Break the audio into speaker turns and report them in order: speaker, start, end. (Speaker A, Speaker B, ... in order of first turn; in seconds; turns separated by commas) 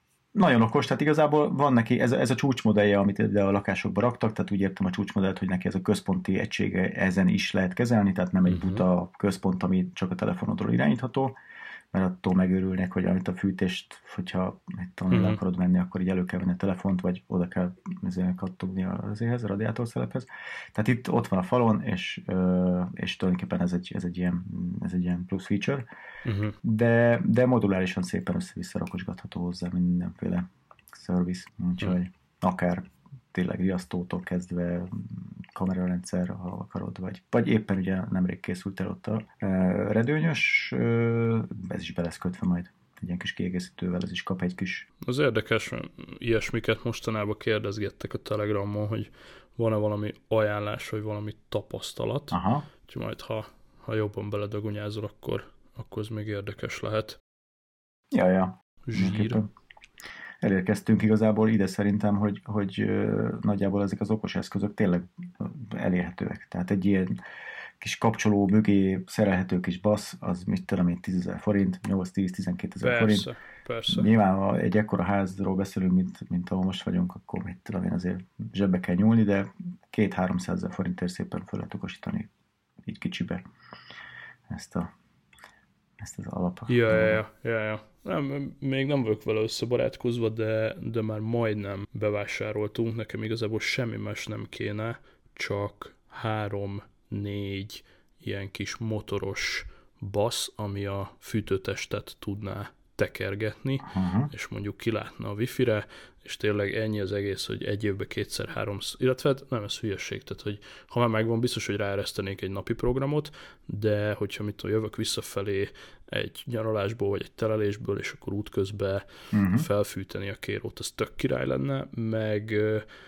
Speaker A: 0.3-11.4, Speaker B: 8.5-8.8, Speaker A: 11.9-25.8, Speaker B: 15.1-15.4, Speaker B: 26.2-26.6, Speaker A: 26.6-44.9, Speaker B: 45.0-57.2, Speaker A: 52.3-52.6, Speaker A: 58.1-59.5, Speaker B: 58.9-59.4, Speaker A: 60.4-67.2, Speaker A: 67.8-73.2, Speaker B: 72.8-74.1, Speaker A: 73.9-82.3, Speaker A: 82.8-83.4, Speaker A: 84.5-84.9, Speaker A: 86.0-87.2, Speaker B: 86.7-122.8, Speaker A: 103.9-104.3, Speaker A: 119.3-119.7